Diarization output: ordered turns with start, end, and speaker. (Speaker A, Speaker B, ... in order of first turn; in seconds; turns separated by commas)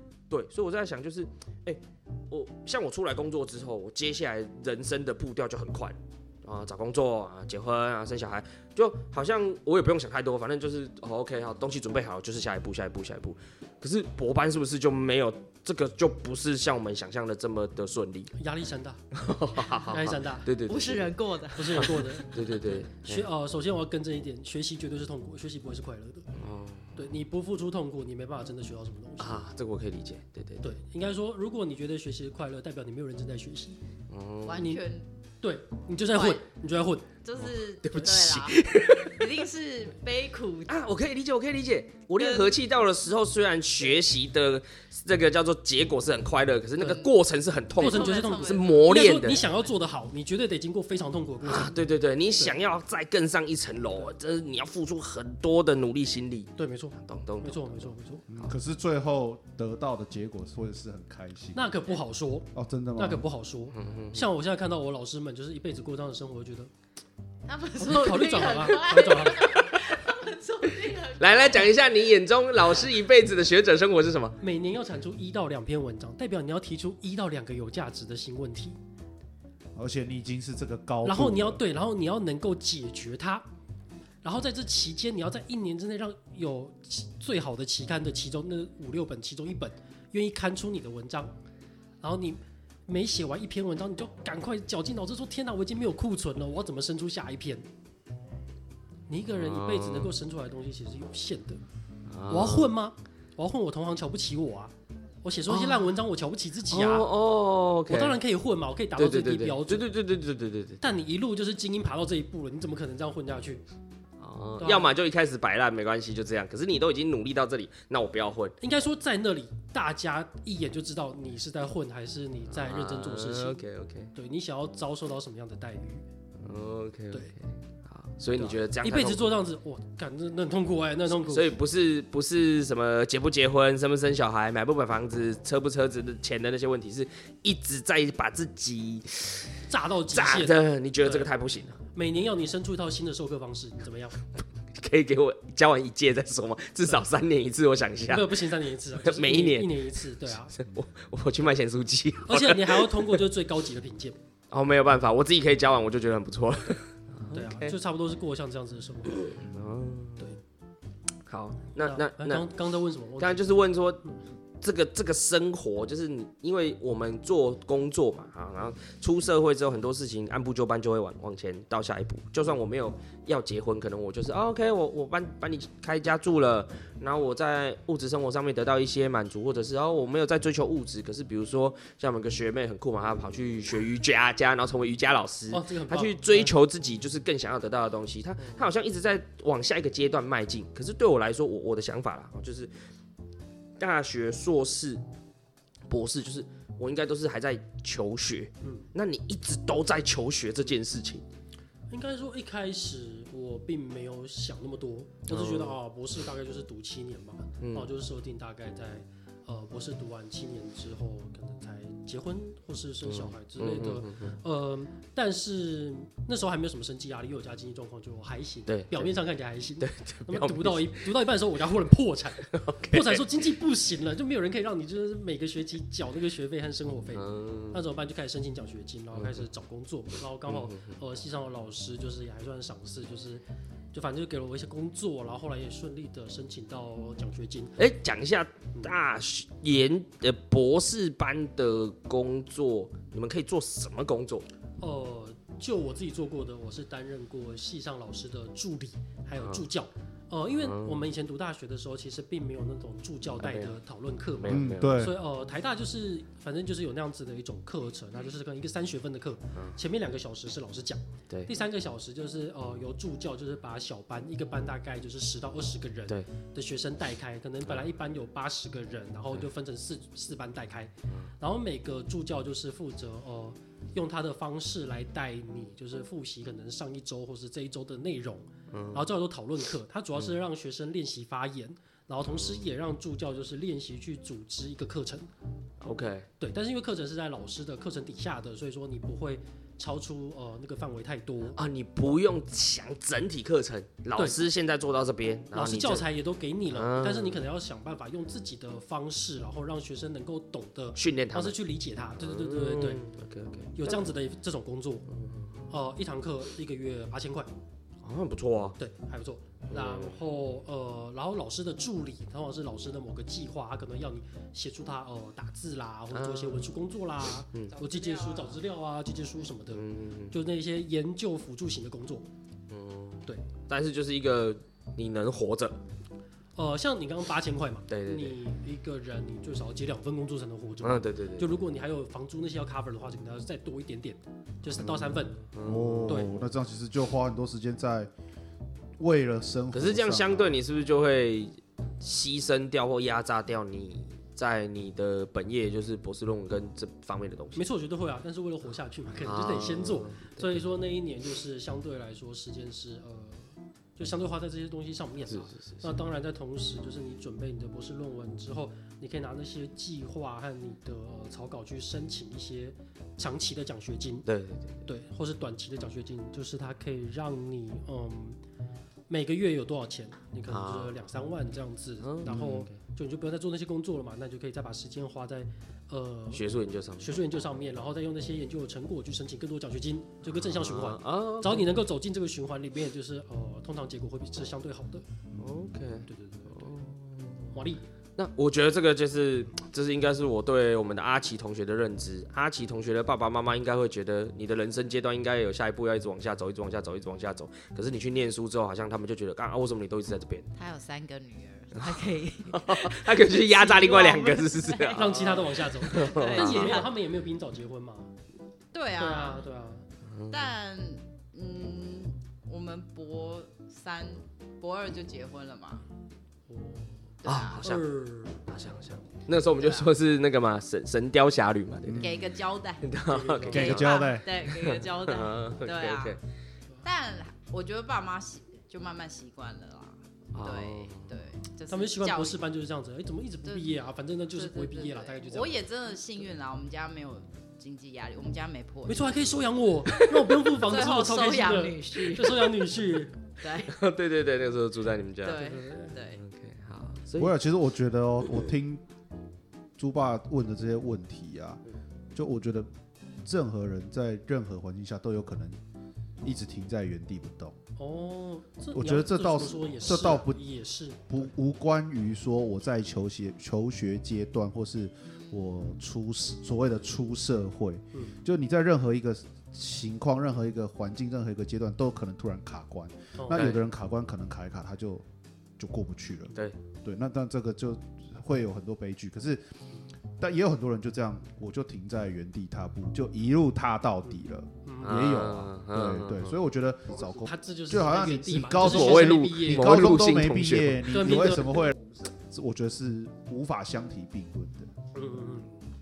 Speaker A: 0.3-18.3, Speaker B: 18.4-19.0, Speaker A: 19.1-21.1, Speaker B: 19.9-20.5, Speaker C: 20.6-22.8, Speaker B: 21.5-22.3, Speaker A: 21.8-23.3, Speaker B: 23.0-26.3, Speaker A: 26.3-27.1, Speaker B: 27.0-29.4, Speaker A: 29.2-30.7, Speaker B: 30.6-33.8, Speaker A: 34.1-34.8, Speaker C: 34.4-35.0, Speaker B: 34.5-34.8, Speaker B: 35.4-37.1, Speaker C: 36.1-36.4, Speaker C: 37.2-40.8, Speaker A: 37.8-39.4, Speaker A: 40.7-49.4, Speaker C: 42.2-42.5, Speaker B: 46.8-47.0, Speaker C: 46.8-47.1, Speaker C: 47.7-49.6, Speaker B: 47.8-51.8, Speaker A: 51.4-58.5, Speaker B: 56.6-58.2, Speaker D: 58.3-61.6, Speaker B: 61.5-66.7, Speaker D: 62.5-63.2, Speaker A: 63.7-64.2, Speaker C: 67.5-72.1, Speaker B: 67.8-69.5, Speaker A: 69.5-69.9, Speaker A: 71.2-74.4, Speaker B: 74.4-78.8, Speaker D: 79.8-81.6, Speaker B: 81.0-83.4, Speaker B: 84.2-91.3, Speaker B: 92.0-97.6, Speaker B: 99.1-101.6, Speaker A: 99.3-100.1, Speaker A: 102.1-102.7, Speaker B: 102.3-107.1, Speaker A: 105.5-105.8, Speaker A: 106.7-108.2, Speaker B: 107.9-109.8, Speaker A: 109.0-110.8, Speaker B: 110.8-113.6, Speaker A: 114.2-118.5, Speaker B: 114.6-114.9, Speaker B: 118.6-123.6, Speaker A: 122.5-124.1, Speaker B: 124.1-126.0, Speaker A: 126.4-129.3, Speaker B: 128.4-131.5, Speaker A: 131.1-139.5, Speaker B: 139.7-141.3, Speaker A: 140.1-141.8, Speaker B: 141.9-144.2, Speaker A: 144.7-148.4, Speaker B: 148.1-150.6, Speaker A: 149.0-153.2, Speaker B: 152.2-154.2, Speaker A: 154.5-157.7, Speaker B: 157.3-159.3, Speaker A: 159.2-160.3, Speaker A: 161.3-162.5, Speaker B: 161.8-163.4, Speaker A: 163.2-164.0, Speaker A: 164.6-192.7, Speaker B: 185.5-186.5, Speaker A: 193.8-195.0, Speaker A: 195.9-201.2, Speaker B: 198.6-198.9, Speaker B: 201.9-237.8, Speaker A: 205.3-205.8, Speaker A: 207.6-207.9, Speaker A: 213.1-214.4, Speaker A: 218.7-219.1, Speaker A: 219.8-221.0, Speaker A: 222.4-223.4, Speaker A: 227.1-227.8, Speaker A: 229.1-229.4, Speaker A: 230.5-230.9, Speaker A: 237.8-244.5, Speaker B: 244.8-285.3, Speaker A: 249.4-249.7, Speaker A: 250.6-251.1, Speaker A: 253.4-253.8, Speaker A: 254.4-255.1, Speaker D: 254.5-255.2, Speaker A: 278.7-279.1, Speaker A: 282.2-282.6, Speaker A: 285.8-286.3, Speaker B: 286.4-291.6, Speaker A: 291.6-296.1, Speaker B: 294.1-294.4, Speaker B: 295.5-303.1, Speaker A: 296.7-297.4, Speaker A: 301.0-301.6, Speaker A: 302.2-304.0, Speaker B: 303.8-305.1, Speaker A: 305.1-305.7, Speaker B: 305.7-307.5, Speaker A: 308.0-308.8, Speaker B: 308.8-322.3, Speaker A: 309.7-310.2, Speaker A: 316.1-316.7, Speaker C: 317.7-318.6, Speaker A: 319.7-320.4, Speaker A: 322.7-325.8, Speaker B: 326.6-335.4, Speaker A: 327.9-328.4, Speaker A: 330.8-331.6, Speaker A: 334.7-336.5, Speaker D: 335.6-338.1, Speaker D: 339.0-340.6, Speaker A: 339.7-347.7, Speaker B: 347.6-364.3, Speaker A: 349.2-350.5, Speaker A: 355.3-355.9, Speaker A: 364.2-364.8, Speaker B: 364.9-368.4, Speaker B: 369.1-376.4, Speaker A: 370.5-371.0, Speaker A: 372.0-372.8, Speaker D: 372.2-372.6, Speaker A: 376.3-377.2, Speaker B: 377.0-385.1, Speaker A: 380.3-381.8, Speaker A: 385.4-387.6, Speaker B: 386.1-386.6, Speaker B: 387.5-387.8, Speaker A: 388.2-400.5, Speaker C: 400.6-406.9, Speaker A: 401.8-406.8, Speaker B: 404.9-408.1, Speaker C: 408.7-409.4, Speaker B: 409.0-409.9, Speaker A: 410.1-410.5, Speaker C: 410.3-415.8, Speaker B: 416.5-418.5, Speaker C: 417.2-417.7, Speaker A: 417.2-417.9, Speaker A: 418.5-422.1, Speaker C: 419.6-419.9, Speaker D: 421.8-422.3, Speaker C: 422.0-423.0, Speaker A: 422.8-426.2, Speaker B: 423.1-423.7, Speaker C: 423.5-426.2, Speaker D: 423.5-424.2, Speaker C: 426.8-432.4, Speaker A: 430.3-431.1, Speaker B: 431.7-435.6, Speaker C: 433.4-433.7, Speaker C: 434.3-439.3, Speaker B: 438.9-443.2, Speaker C: 440.5-442.6, Speaker C: 443.4-443.8, Speaker A: 443.7-445.5, Speaker C: 445.2-446.2, Speaker B: 445.3-446.0, Speaker A: 446.2-447.4, Speaker D: 447.2-448.8, Speaker D: 449.8-451.6, Speaker D: 452.1-452.7, Speaker D: 453.2-455.6, Speaker D: 456.2-457.6, Speaker B: 457.8-461.3, Speaker D: 458.7-460.4, Speaker D: 461.1-475.1, Speaker B: 473.2-473.5, Speaker A: 473.3-473.6, Speaker D: 475.6-479.4, Speaker D: 480.2-494.7, Speaker B: 484.6-484.9, Speaker A: 484.8-486.3, Speaker B: 487.1-489.9, Speaker A: 488.6-491.1, Speaker B: 490.9-491.6, Speaker B: 494.9-495.7